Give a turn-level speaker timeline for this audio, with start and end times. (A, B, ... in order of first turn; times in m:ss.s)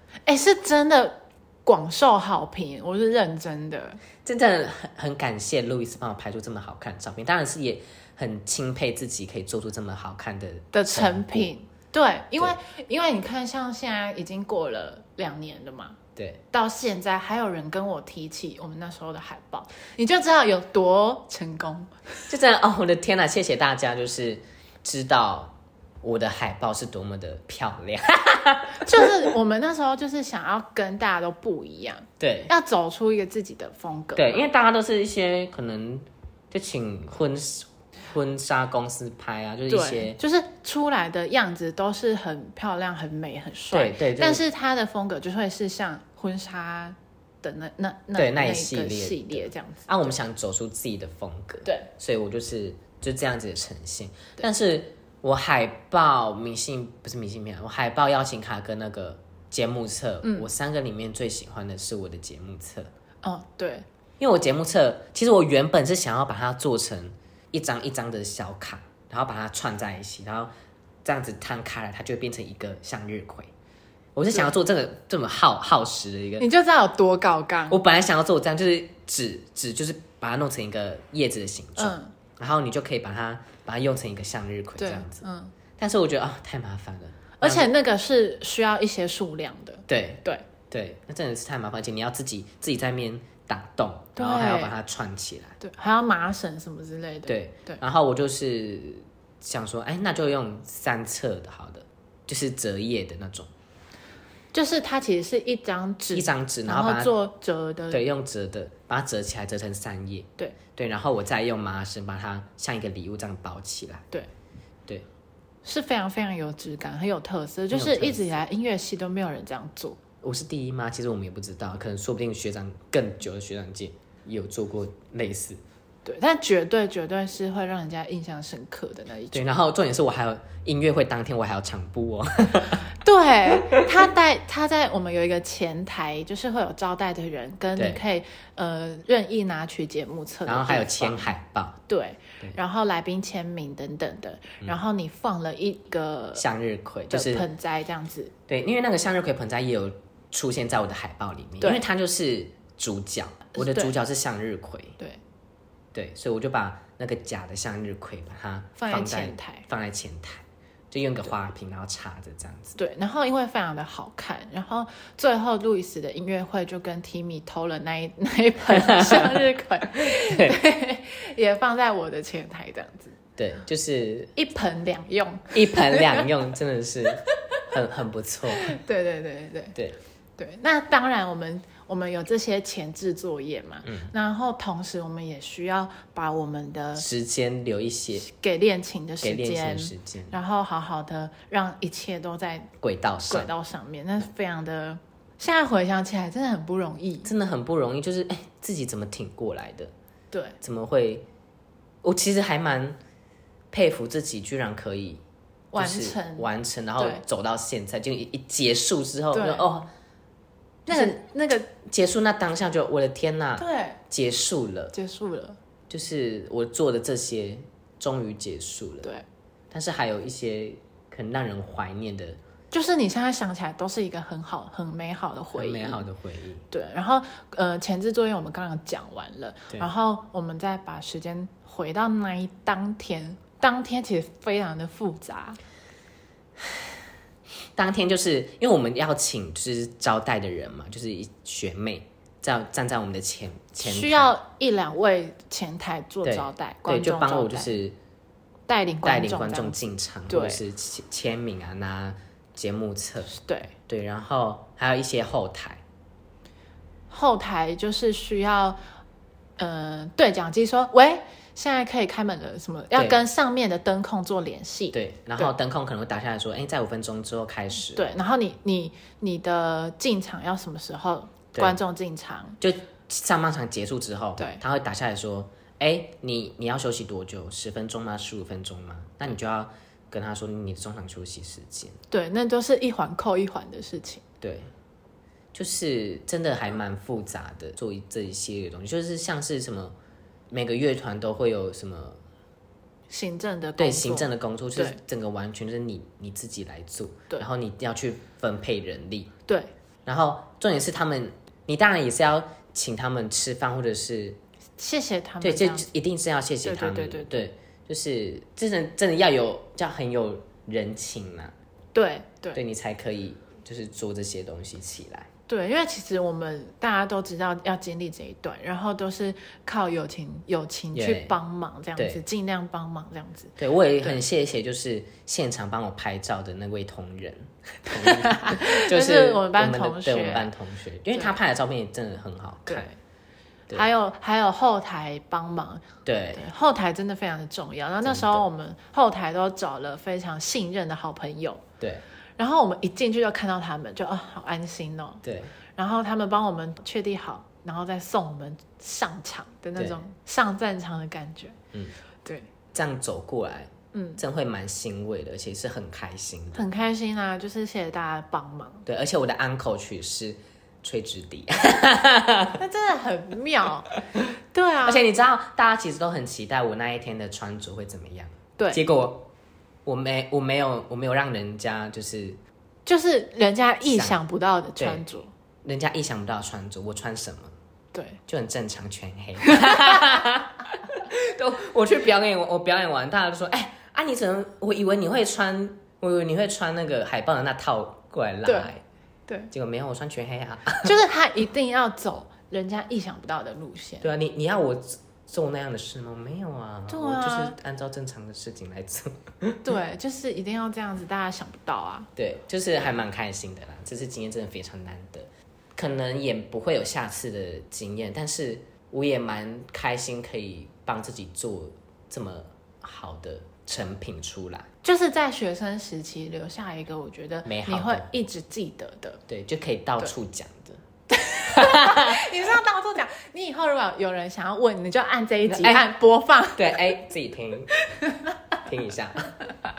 0:00.3-0:04.0 A
0:04.2-0:11.5 B
0:10.7-0:16.0 A
0:16.2-0:16.4 B
0:16.5-0:22.2 A
0:22.3-0:29.3 B
0:28.8-0:34.4 A
0:32.2-0:32.5 B
0:34.2-0:40.2 B
0:39.7-0:49.9 A
0:43.7-0:44.4 B
0:48.1-1:02.9 B
1:00.2-1:00.5 A
1:03.2-1:03.8 A
1:04.2-1:10.5 B
1:11.0-1:13.5 B
1:14.2-1:16.4 B
1:16.4-1:17.8 A
1:17.7-1:25.2 B
1:21.8-1:22.1 A
1:24.8-1:25.5 A
1:25.8-1:27.7 B
1:27.4-1:30.5 A
1:29.9-1:35.6 B
1:34.2-1:34.7 A
1:35.6-1:37.8 A
1:37.3-1:43.5 B
1:44.5-1:48.0 A
1:46.1-1:47.1 B
1:47.9-1:54.1 B
1:55.6-2:00.0 A
1:57.7-1:58.3 B
2:00.2-2:05.6 B
2:06.0-2:09.4 A
2:09.3-2:12.9 B
2:13.0-2:21.3 A
2:17.8-2:18.0 B
2:20.4-2:21.8 B
2:21.9-2:26.4 A
2:26.4-2:27.5 B
2:27.1-2:28.3 A
2:28.5-2:35.0 B
2:33.5-2:33.9 A
2:35.9-2:42.8 B
2:38.8-2:39.6 A
2:42.8-2:53.1 A
2:48.7-2:50.5 B
2:53.4-2:54.3 B
2:54.3-2:56.3 A
2:55.5-2:58.8 B
2:58.5-2:59.8 A
3:00.4-3:07.0 A
3:03.8-3:04.1 B
3:07.0-3:08.2 B
3:08.2-3:12.7 A
3:09.2-3:10.4 B
3:12.8-3:13.5 B
3:13.3-3:17.3 A
3:17.2-3:19.9 B
3:20.3-3:20.6 A
3:20.6-3:21.2 B
3:22.0-3:23.0 B
3:23.7-3:25.2 B
3:25.7-3:27.2 A
3:25.7-3:29.9 B
3:29.3-3:29.7 A
3:30.9-3:31.6 A
3:30.9-3:34.9 B
3:33.6-3:34.0 A
3:34.9-3:35.6 A
3:35.9-3:39.1 B
3:39.7-3:42.4 B
3:42.7-3:46.0 A
3:45.5-3:46.6 B
3:46.7-3:55.6 A
3:57.7-4:04.3 B
4:03.8-4:07.7 A
4:06.2-4:08.0 B
4:08.7-4:09.8 A
4:09.0-4:15.8 B
4:10.3-4:10.6 A
4:13.3-4:13.7 A
4:17.1-4:18.8 A
4:19.6-4:25.5 A
4:22.9-4:23.2 B
4:24.9-4:28.1 B
4:27.9-4:32.6 A
4:32.6-4:42.0 B
4:42.1-4:44.2 A
4:44.4-4:44.7 B
4:45.5-4:49.9 B
4:50.5-4:52.2 B
4:53.1-4:55.0 A
4:53.8-4:59.3 B
5:00.0-5:04.4 B
5:04.8-5:05.8 A
5:05.4-5:11.5 B
5:06.6-5:07.4 A
5:11.9-5:12.6 A
5:12.5-5:15.3 B
5:15.5-5:24.2 A
5:20.9-5:21.3 B
5:22.0-5:22.2 B
5:23.6-5:32.9 B
5:28.0-5:30.5 A
5:32.7-5:33.0 A
5:33.7-5:41.6 A
5:36.0-5:36.4 B
5:38.0-5:38.4 B
5:42.4-5:45.2 A
5:45.2-5:45.5 B
5:45.8-5:51.6 A
5:52.7-5:56.7 B
5:53.9-5:54.2 A
5:56.5-5:58.8 A
5:58.8-6:02.6 B
6:02.6-6:03.9 A
6:04.5-6:05.0 A
6:04.8-6:09.3 B
6:09.8-6:12.4 B
6:12.8-6:15.3 A
6:13.8-6:14.2 B
6:14.8-6:15.0 B
6:15.6-6:17.5 B
6:17.9-6:18.2 A
6:18.3-6:28.8 B
6:19.4-6:20.0 A
6:28.4-6:28.7 A
6:29.5-6:31.0 B
6:30.8-6:34.1 A
6:34.0-6:39.6 B
6:36.9-6:37.6 A
6:39.6-6:42.1 A
6:42.2-6:54.7 B
6:54.8-6:59.2 A
6:57.4-6:58.1 B
6:59.3-7:00.8 B
7:01.1-7:06.8 A
7:01.5-7:02.2 B
7:05.5-7:05.9 B
7:06.6-7:07.7 B
7:08.6-7:09.3 B